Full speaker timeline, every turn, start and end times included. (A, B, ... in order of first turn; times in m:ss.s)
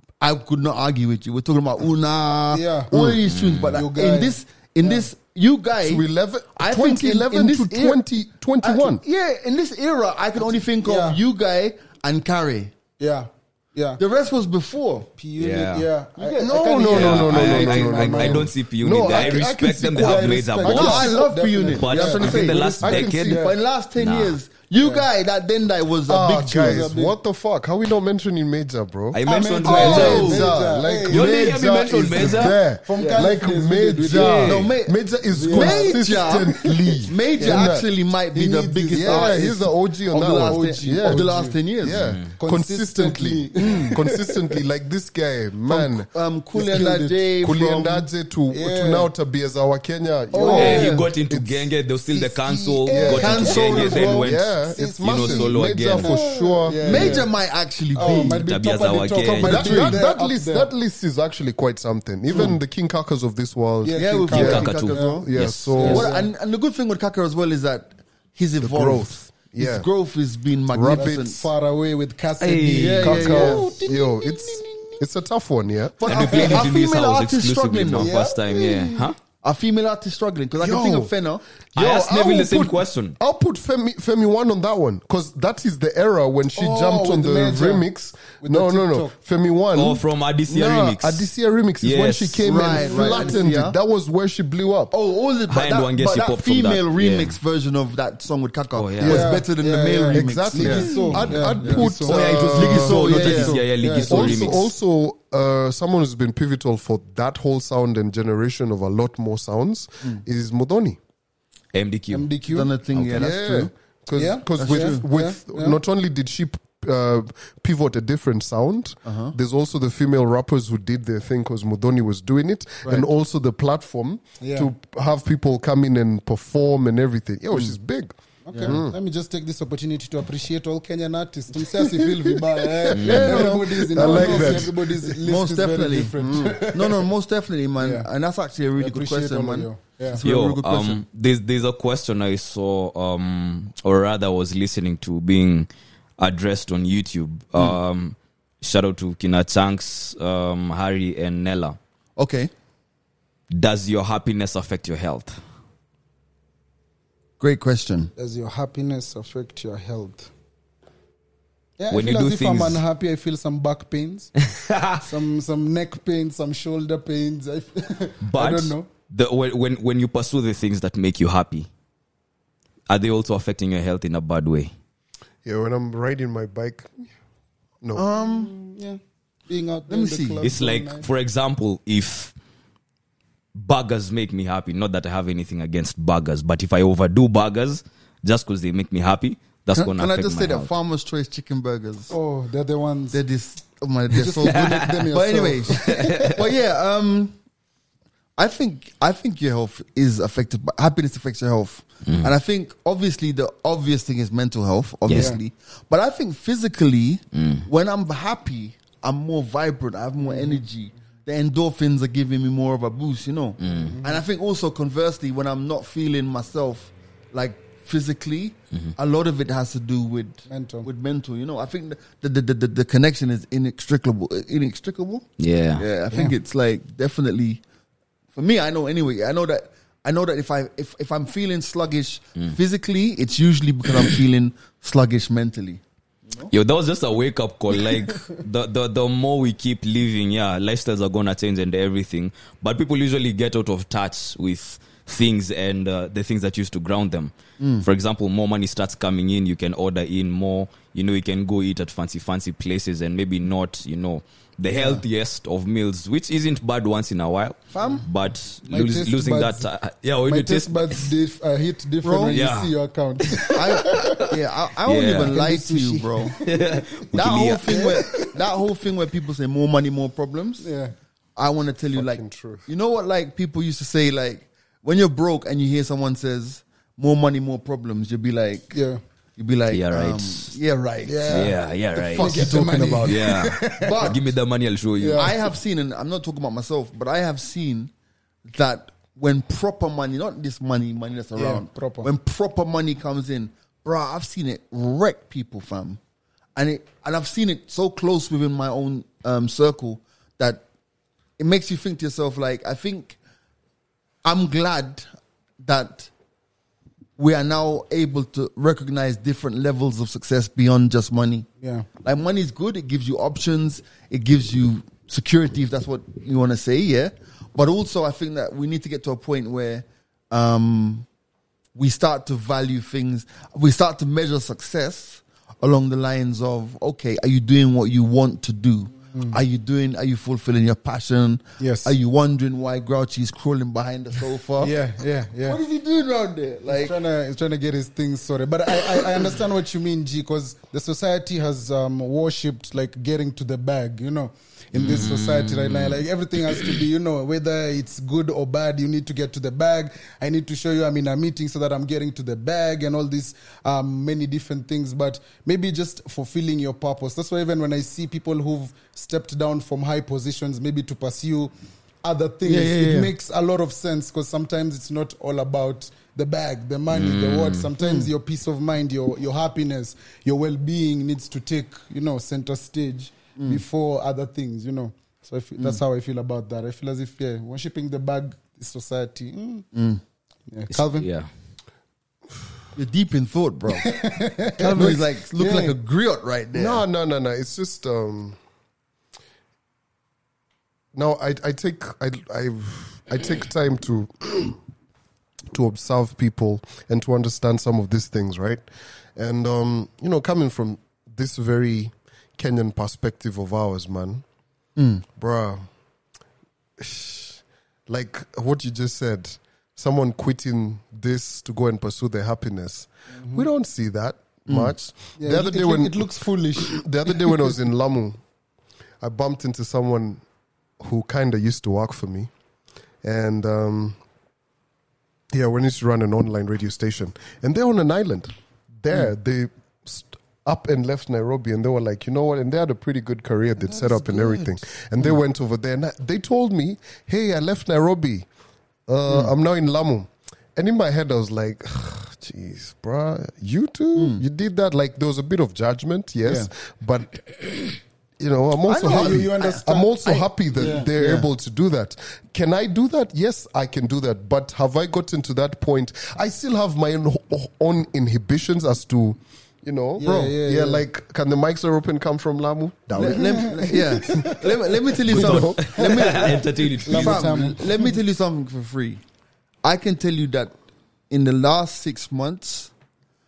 0:00.2-0:06.0 A
0:02.5-0:03.2 B
0:03.3-0:03.8 C
0:03.7-0:05.1 B
0:05.8-0:09.0 D
0:06.6-0:08.0 A
0:08.6-0:12.7 A
0:10.8-0:11.2 B
0:13.0-0:14.0 B
0:14.0-0:15.1 A
0:15.2-0:18.5 B
0:15.4-0:15.9 C
0:16.2-0:16.8 A
0:16.4-0:21.0 D
0:16.9-0:24.4 C
0:19.0-0:19.4 B
0:19.9-0:23.6 B
0:20.7-0:26.9 A
0:22.8-0:23.2 D
0:24.8-0:25.1 B
0:26.1-0:37.8 D
0:26.6-0:27.2 B
0:29.1-0:30.5 C
0:29.3-0:31.5 B
0:29.6-0:30.5 A
0:31.1-0:32.6 C
0:32.1-0:34.7 B
0:33.0-0:33.3 A
0:34.1-0:39.5 A
0:35.3-0:37.7 B
0:38.3-0:41.6 B
0:39.0-0:41.3 D
0:40.1-0:42.0 A
0:41.8-0:46.1 D
0:41.9-0:42.3 C
0:42.4-0:44.5 B
0:43.6-0:44.0 A
0:45.7-0:48.0 A
0:46.5-0:47.2 B
0:47.4-0:51.7 D
0:48.5-0:49.1 B
0:50.3-0:51.0 B
0:50.3-0:51.1 A
0:50.5-0:56.2 C
0:52.1-0:54.1 B
0:52.9-0:57.2 D
0:53.1-0:54.3 A
0:54.7-0:57.3 B
0:56.8-0:58.5 A
0:57.9-1:00.7 B
0:58.0-1:00.0 C
0:59.2-1:06.1 D
1:03.8-1:06.3 B
1:03.9-1:11.4 A
1:04.3-1:06.0 C
1:08.6-1:09.9 D
1:10.7-1:11.4 D
1:10.9-1:15.0 B
1:12.4-1:13.4 C
1:12.7-1:13.7 A
1:13.0-1:16.0 D
1:16.0-1:18.2 A
1:16.0-1:19.2 C
1:16.1-1:16.7 B
1:18.0-1:19.0 B
1:19.4-1:21.4 A
1:20.6-1:21.1 D
1:21.7-1:34.9 D
1:21.7-1:23.2 C
1:26.5-1:27.8 B
1:28.4-1:29.1 B
1:29.7-1:31.3 C
1:31.8-1:32.4 C
1:32.4-1:33.8 A
1:32.6-1:33.4 B
1:34.9-1:43.6 A
1:35.5-1:37.4 C
1:38.7-1:39.3 C
1:39.0-1:39.3 D
1:39.0-1:42.2 B
1:40.1-1:51.0 D
1:41.0-1:44.7 C
1:43.1-1:44.6 B
1:51.7-1:52.3 C
1:52.1-1:52.7 B
1:52.4-1:53.7 A
1:52.9-1:53.2 C
1:53.1-2:09.0 D
1:54.2-1:55.8 B
1:54.5-1:55.0 A
1:59.0-1:59.3 A
2:04.4-2:04.7 B
2:08.5-2:17.1 B
2:08.5-2:08.8 A
2:11.7-2:14.9 D
2:12.9-2:13.5 C
2:13.9-2:21.0 A
2:16.2-2:16.6 D
2:17.8-2:18.1 B
2:18.8-2:20.2 B
2:20.2-2:25.7 C
2:26.2-2:31.8 C
2:32.2-2:32.5 A
2:33.5-2:35.4 C
2:37.4-2:38.1 A
2:38.2-2:40.3 B
2:41.8-2:44.3 B
2:41.9-2:42.8 C
2:44.5-2:45.0 C
2:45.0-2:48.9 B
2:48.2-2:51.7 C
2:52.9-2:54.7 C
2:55.4-2:57.1 D
2:57.9-2:58.5 A
2:58.1-3:01.1 B
2:59.9-3:00.5 A
3:00.4-3:02.3 C
3:03.5-3:10.7 C
3:09.7-3:12.1 A
3:12.1-3:13.2 B
3:13.1-3:17.4 A
3:14.1-3:16.4 B
3:14.4-3:15.1 C
3:15.7-3:16.4 C
3:18.4-3:45.2 A
3:22.0-3:22.3 C
3:25.1-3:25.3 C
3:25.1-3:25.4 B
3:27.3-3:27.7 C
3:30.2-3:30.6 B
3:33.6-3:34.0 C
3:33.9-3:34.2 B
3:40.5-3:40.9 B
3:45.4-3:45.8 C
3:45.8-3:47.6 A
3:48.3-3:56.5 A
3:56.5-4:21.1 C
4:07.6-4:07.8 A
4:14.7-4:15.0 A
4:17.7-4:18.0 A
4:18.7-4:19.7 B
4:20.2-4:24.3 B
4:22.0-4:22.4 A
4:22.3-4:24.2 C
4:23.5-4:26.4 A
4:24.8-4:25.4 C
4:25.2-4:26.8 B
4:26.4-4:28.1 C
4:27.1-4:30.7 A
4:27.7-4:28.4 B
4:30.6-4:30.9 B
4:31.4-4:38.8 A
4:31.9-4:32.6 D
4:38.7-4:39.0 B
4:39.4-4:41.6 A
4:39.7-4:40.6 C
4:41.0-4:41.6 B
4:41.3-4:45.3 C
4:42.1-4:44.1 B
4:42.1-4:43.1 A
4:42.3-4:43.0 D
4:43.8-4:44.2 A
4:45.0-4:45.4 B
4:45.2-4:47.9 A
4:48.5-4:56.0 A
4:51.4-4:52.1 B
4:56.6-5:00.6 A
5:01.4-5:03.2 A
5:04.2-5:05.0 A
5:05.6-5:06.1 A
5:07.2-5:11.5 A
5:11.6-5:11.9 B
5:12.0-5:21.0 A
5:21.7-5:34.8 A
5:31.6-5:31.9 B
5:34.6-5:35.6 B
5:35.4-5:37.0 A
5:36.7-6:01.5 B
5:44.7-5:46.8 C
6:02.0-6:19.7 B
6:02.4-6:03.1 A
6:06.9-6:07.7 C
6:07.8-6:08.1 A
6:13.4-6:13.6 A
6:19.7-6:20.0 A
6:20.5-6:21.1 B
6:20.7-6:21.3 C
6:22.8-6:23.9 A
6:23.7-6:25.7 B
6:24.5-6:26.8 A
6:24.7-6:25.0 D
6:26.5-6:28.4 D
6:30.9-6:34.6 D
6:35.5-6:38.6 D
6:39.2-6:44.2 D
6:44.8-6:45.0 A
6:45.2-6:45.6 D
6:46.8-6:58.2 D
6:53.2-6:53.4 B
6:54.5-6:54.7 A
6:55.2-6:57.5 B
6:59.0-7:00.2 D
7:00.8-7:02.3 D
7:03.0-7:04.0 D
7:05.3-7:18.3 D
7:18.9-7:44.3 D
7:23.9-7:24.2 A
7:28.7-7:30.3 A
7:28.7-7:31.3 B
7:40.0-7:40.8 B
7:42.9-7:49.0 A
7:43.0-7:44.6 B
7:45.1-7:45.7 D
7:45.1-7:47.5 C
7:45.8-7:47.9 B
7:49.6-7:50.5 A
7:51.1-7:52.7 A